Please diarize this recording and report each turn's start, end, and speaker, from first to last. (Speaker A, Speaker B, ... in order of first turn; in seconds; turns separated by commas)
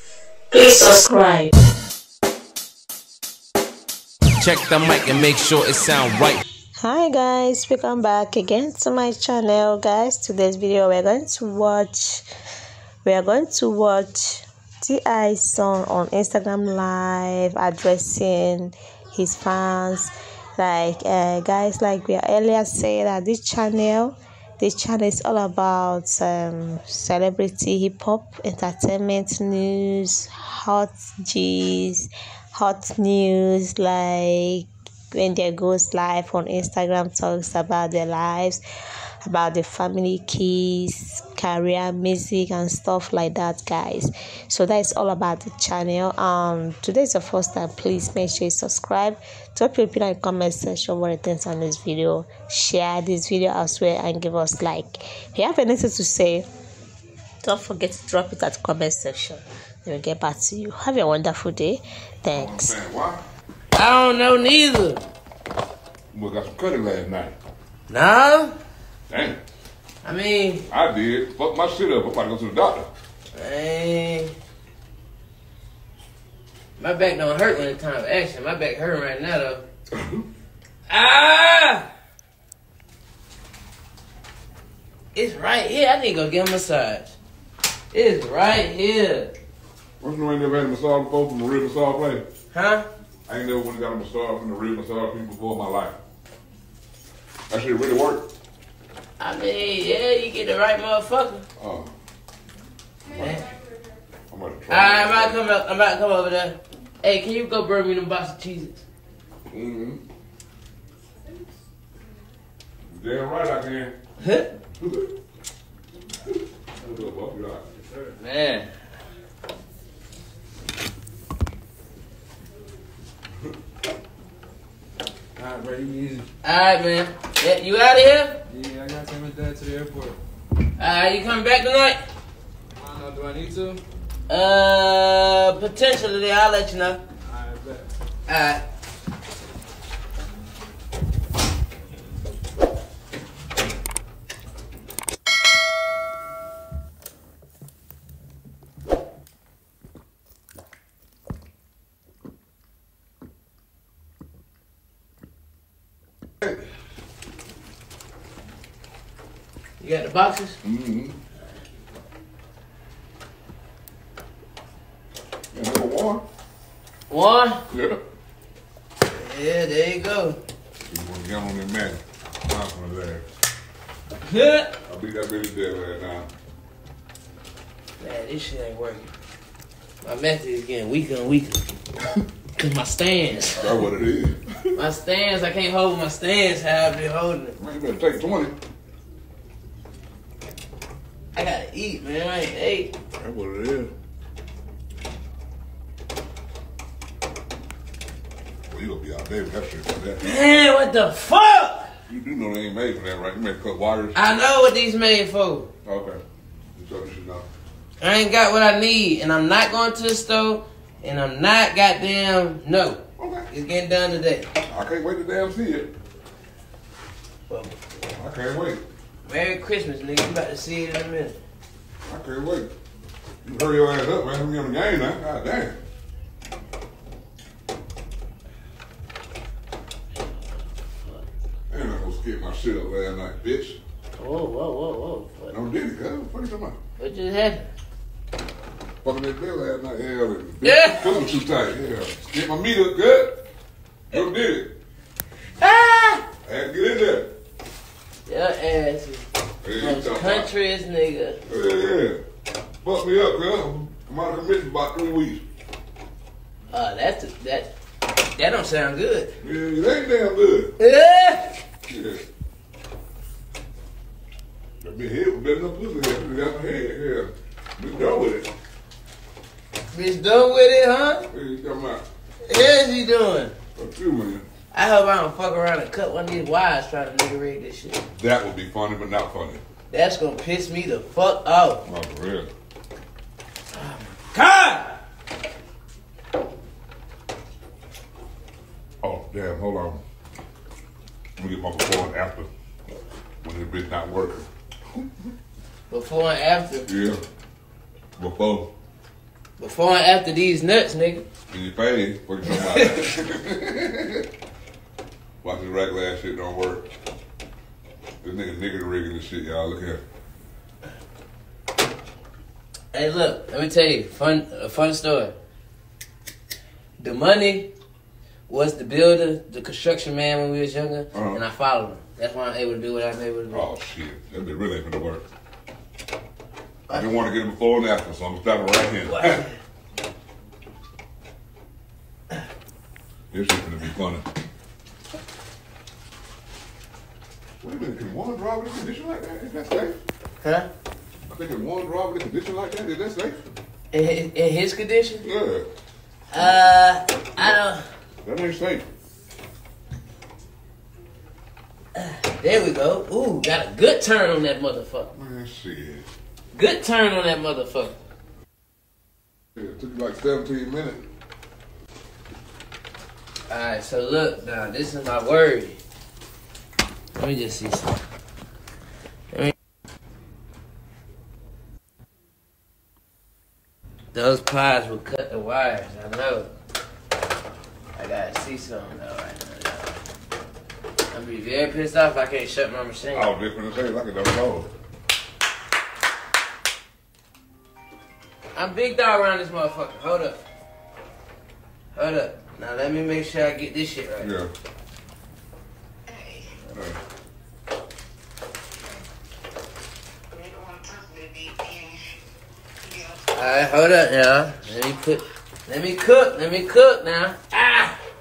Speaker A: 0.5-1.5, Speaker B: 4.4-6.4, Speaker C: 4.5-5.2, Speaker A: 6.8-12.2, Speaker A: 13.0-38.6, Speaker A: 39.2-56.5, Speaker A: 57.4-62.8, Speaker D: 62.3-63.2, Speaker E: 63.7-65.1, Speaker D: 66.1-67.4, Speaker E: 67.9-68.6, Speaker D: 69.1-69.4, Speaker E: 70.0-70.7, Speaker D: 70.7-72.9, Speaker E: 73.3-74.3, Speaker E: 76.8-79.7, Speaker D: 80.0-80.2, Speaker E: 80.9-81.9, Speaker E: 85.2-87.1, Speaker E: 87.9-89.3, Speaker D: 90.0-92.3, Speaker E: 92.5-92.9, Speaker D: 93.3-96.0, Speaker D: 97.5-98.3, Speaker E: 99.2-101.5, Speaker D: 101.6-101.9, Speaker E: 103.1-103.5, Speaker D: 104.3-105.4, Speaker E: 104.7-108.8, Speaker D: 109.5-110.0, Speaker D: 112.9-114.0, Speaker E: 114.2-114.5, Speaker D: 114.8-115.1, Speaker D: 116.3-117.6, Speaker E: 118.0-118.7, Speaker C: 125.4-126.3, Speaker E: 126.4-128.4, Speaker C: 128.5-130.2, Speaker E: 130.8-132.0, Speaker C: 132.8-133.8, Speaker E: 134.3-137.0, Speaker C: 137.3-137.9, Speaker E: 138.3-138.6, Speaker E: 159.8-160.6, Speaker D: 160.6-161.2, Speaker D: 165.5-166.3, Speaker E: 167.1-167.6, Speaker D: 167.7-168.0, Speaker E: 169.1-170.4, Speaker D: 170.9-173.2, Speaker E: 174.2-174.7, Speaker D: 174.9-176.3, Speaker E: 178.0-179.1, Speaker E: 180.0-181.6, Speaker E: 182.6-183.8, Speaker D: 183.6-184.5, Speaker E: 184.8-187.6, Speaker D: 187.6-188.6, Speaker E: 191.3-192.9, Speaker D: 193.2-193.9, Speaker D: 198.7-200.2, Speaker E: 200.2-201.9, Speaker D: 202.1-204.2, Speaker E: 204.1-205.7, Speaker D: 205.8-206.2, Speaker D: 206.8-207.5, Speaker E: 208.0-214.5, Speaker D: 213.2-213.5, Speaker D: 214.7-215.9, Speaker E: 217.5-217.8, Speaker D: 218.2-218.8, Speaker E: 219.2-221.4, Speaker D: 222.1-222.7, Speaker D: 223.4-225.8, Speaker D: 231.7-233.8, Speaker E: 234.2-235.6, Speaker D: 235.5-236.8, Speaker E: 237.0-237.7, Speaker D: 239.0-243.4, Speaker E: 240.6-241.3, Speaker D: 244.1-244.8, Speaker E: 245.6-246.3, Speaker D: 246.4-247.3, Speaker E: 248.3-249.3, Speaker D: 249.6-250.5, Speaker E: 249.8-251.4, Speaker D: 251.5-252.2, Speaker D: 252.8-255.4, Speaker E: 256.7-257.7, Speaker E: 258.3-259.3, Speaker D: 259.4-260.7, Speaker E: 260.8-261.6, Speaker D: 261.9-262.2, Speaker D: 264.8-268.5, Speaker E: 269.9-271.3, Speaker D: 271.3-272.0, Speaker E: 272.4-273.6, Speaker D: 273.8-274.5, Speaker E: 274.7-278.0, Speaker D: 278.1-279.6, Speaker E: 279.9-281.8, Speaker D: 281.9-282.5, Speaker E: 283.7-285.0, Speaker D: 289.0-290.0, Speaker D: 291.4-292.5, Speaker D: 293.4-294.5, Speaker E: 295.9-296.9, Speaker D: 296.9-297.2, Speaker D: 298.2-298.7, Speaker E: 299.6-301.2, Speaker D: 301.5-304.2, Speaker E: 302.4-303.1, Speaker D: 305.4-306.9, Speaker D: 308.2-310.0, Speaker E: 312.9-315.4, Speaker E: 317.0-317.7, Speaker E: 318.5-323.7, Speaker D: 321.1-321.4, Speaker D: 323.5-325.2, Speaker D: 326.9-329.4, Speaker E: 329.1-329.5, Speaker D: 333.3-334.3, Speaker D: 337.6-340.0, Speaker E: 340.4-340.7, Speaker D: 341.3-343.5, Speaker E: 343.9-345.3, Speaker D: 345.2-345.7, Speaker E: 346.3-347.9, Speaker D: 348.2-348.9, Speaker E: 351.9-355.1, Speaker D: 355.1-356.1, Speaker E: 356.5-358.0, Speaker D: 359.6-361.1, Speaker E: 363.5-365.8, Speaker E: 367.1-368.0, Speaker E: 374.1-376.5, Speaker E: 377.9-380.0, Speaker E: 381.1-383.3, Speaker D: 383.1-384.7, Speaker E: 388.5-390.4, Speaker E: 391.9-394.3, Speaker D: 394.2-394.5, Speaker D: 396.7-397.0, Speaker E: 403.2-408.0